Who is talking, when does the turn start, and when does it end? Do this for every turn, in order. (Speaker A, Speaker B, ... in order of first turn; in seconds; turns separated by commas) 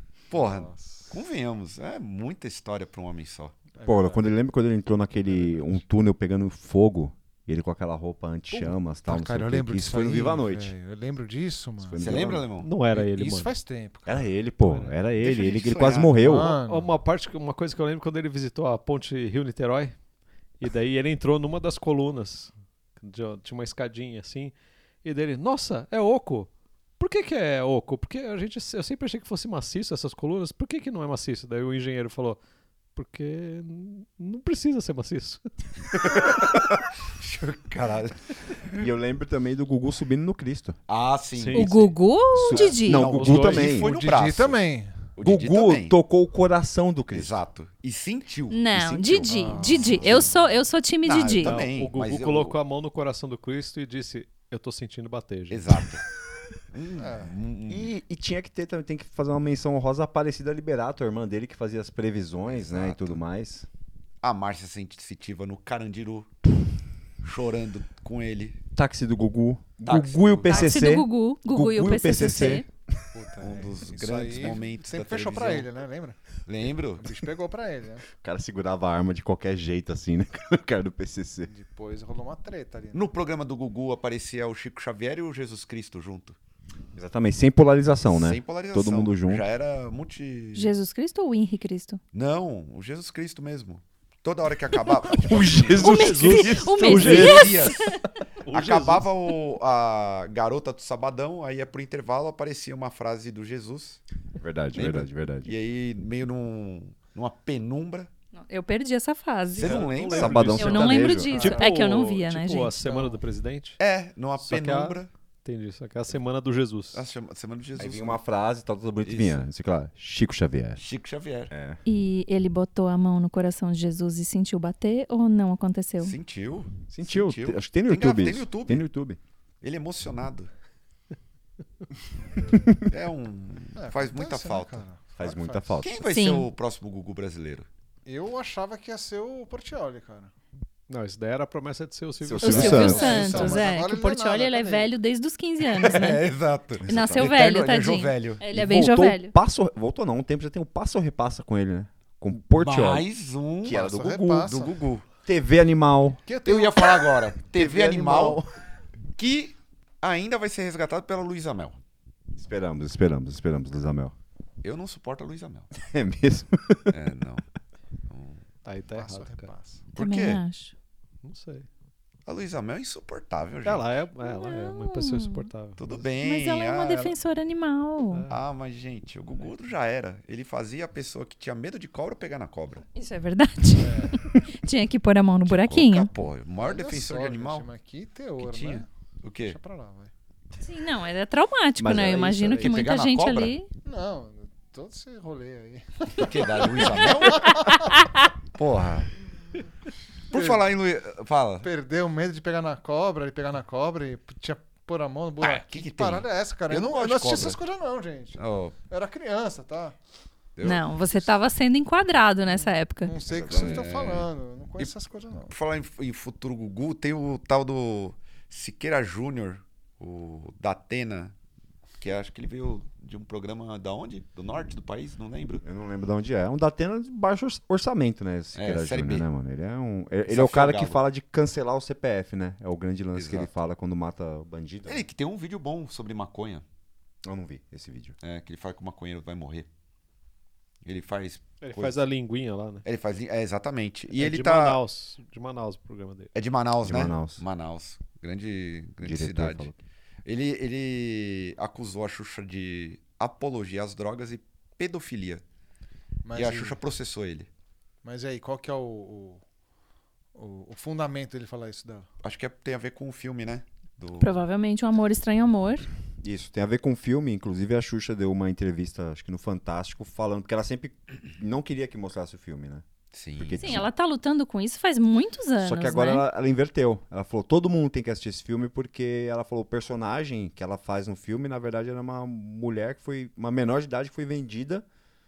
Speaker A: 0.3-3.5, Speaker B: 0.3-1.2, Speaker B: 3.7-4.3, Speaker C: 3.8-10.7, Speaker B: 5.2-5.8, Speaker B: 8.6-12.2, Speaker C: 11.8-12.5, Speaker A: 12.0-12.7, Speaker D: 12.6-13.5, Speaker B: 12.9-14.3, Speaker C: 14.1-16.6, Speaker A: 15.2-16.2, Speaker B: 16.2-16.9, Speaker D: 16.5-20.0, Speaker D: 20.6-32.4, Speaker D: 32.9-35.5, Speaker A: 36.0-38.8, Speaker C: 38.7-40.8, Speaker A: 40.9-41.8, Speaker D: 41.4-41.9, Speaker E: 41.5-43.1, Speaker C: 42.3-43.9, Speaker A: 42.6-44.6, Speaker D: 42.9-43.8, Speaker B: 43.8-45.0, Speaker A: 45.1-46.0, Speaker C: 45.2-47.4, Speaker A: 47.1-48.7, Speaker E: 48.5-51.6, Speaker C: 48.7-50.3, Speaker B: 49.3-50.3, Speaker A: 49.6-50.3, Speaker A: 51.0-52.6, Speaker D: 51.4-55.7, Speaker A: 55.5-56.1, Speaker A: 56.7-57.9, Speaker B: 57.0-57.3, Speaker C: 57.7-63.7, Speaker A: 62.5-63.1, Speaker A: 64.2-66.3, Speaker A: 67.2-68.6, Speaker C: 68.8-72.7, Speaker A: 69.8-70.8, Speaker E: 70.5-72.6, Speaker B: 73.1-76.2, Speaker A: 73.4-75.7, Speaker A: 76.5-77.1, Speaker B: 77.0-78.1, Speaker C: 78.1-81.5, Speaker B: 81.5-83.1, Speaker A: 82.9-86.4, Speaker C: 86.9-89.5, Speaker A: 88.1-90.7, Speaker E: 90.5-92.0, Speaker A: 92.1-95.8, Speaker C: 95.1-97.7, Speaker D: 95.8-97.7, Speaker E: 95.8-98.1, Speaker A: 96.8-97.9, Speaker D: 98.4-99.1, Speaker A: 98.5-104.0, Speaker C: 104.4-105.5, Speaker A: 104.8-108.1, Speaker E: 108.3-109.8, Speaker A: 109.5-111.0, Speaker D: 109.6-113.8, Speaker C: 109.8-111.4, Speaker E: 110.6-113.0, Speaker B: 111.3-111.7, Speaker A: 113.8-115.1, Speaker D: 114.4-117.0, Speaker A: 116.9-118.2, Speaker C: 117.8-120.8, Speaker A: 119.0-119.4, Speaker A: 120.8-121.5, Speaker C: 121.5-121.8, Speaker E: 121.8-126.1, Speaker A: 126.0-128.8, Speaker C: 126.9-129.2, Speaker A: 129.6-130.5, Speaker C: 132.5-132.8, Speaker A: 132.8-134.8, Speaker B: 133.8-135.8, Speaker C: 135.2-136.0, Speaker A: 135.8-137.7, Speaker E: 136.1-136.5, Speaker B: 138.1-140.3, Speaker D: 140.9-143.5, Speaker C: 142.2-143.6, Speaker E: 142.4-146.2, Speaker B: 142.5-144.9, Speaker A: 145.8-148.4, Speaker C: 146.9-147.3, Speaker E: 146.9-149.3, Speaker C: 148.5-153.1, Speaker A: 152.6-155.1, Speaker B: 153.6-154.8, Speaker C: 153.8-154.4, Speaker C: 155.2-156.2, Speaker B: 156.2-157.2, Speaker A: 156.4-158.4, Speaker C: 157.5-158.5, Speaker A: 159.2-161.8, Speaker C: 162.3-164.2, Speaker A: 164.6-165.7, Speaker C: 165.7-167.0, Speaker A: 166.9-167.5, Speaker A: 168.1-168.4, Speaker D: 168.6-169.5, Speaker B: 168.9-169.9, Speaker A: 169.9-170.4, Speaker E: 170.0-170.7, Speaker D: 171.2-171.7, Speaker A: 172.2-173.8, Speaker D: 173.6-176.0, Speaker E: 174.2-175.5, Speaker A: 175.8-177.1, Speaker E: 176.2-178.2, Speaker D: 178.1-178.4, Speaker A: 178.3-182.9, Speaker E: 182.9-186.1, Speaker B: 183.8-184.2, Speaker A: 185.5-187.7, Speaker B: 186.6-188.8, Speaker A: 188.4-189.6, Speaker B: 189.5-190.1, Speaker E: 190.6-193.7, Speaker C: 191.8-192.8, Speaker A: 192.6-193.5, Speaker B: 193.8-197.9, Speaker A: 196.2-197.6, Speaker E: 197.3-198.3, Speaker A: 198.5-199.1, Speaker A: 200.3-201.7, Speaker B: 200.3-200.6, Speaker B: 201.6-210.0, Speaker A: 205.4-207.6, Speaker A: 208.4-208.8, Speaker A: 210.6-211.3, Speaker E: 210.6-213.2, Speaker B: 212.5-215.5, Speaker A: 213.3-214.9, Speaker C: 213.5-213.8, Speaker A: 215.5-221.3, Speaker A: 222.0-225.6, Speaker C: 225.6-235.1, Speaker A: 228.5-229.3, Speaker A: 230.3-231.0, Speaker A: 233.1-233.5, Speaker A: 234.8-236.6, Speaker C: 237.2-238.1, Speaker A: 238.2-239.7, Speaker A: 240.8-242.0, Speaker D: 241.6-242.8, Speaker A: 242.8-244.8, Speaker D: 244.2-246.3, Speaker A: 246.3-249.7, Speaker C: 246.8-247.4, Speaker C: 249.0-249.8, Speaker A: 250.2-255.4, Speaker B: 256.2-256.8, Speaker A: 256.3-257.5, Speaker B: 258.0-259.4, Speaker B: 260.4-262.1, Speaker A: 262.2-264.4, Speaker E: 264.2-265.9, Speaker C: 266.2-272.9, Speaker A: 273.1-273.9, Speaker C: 273.4-273.9, Speaker E: 273.5-276.2, Speaker C: 275.6-284.9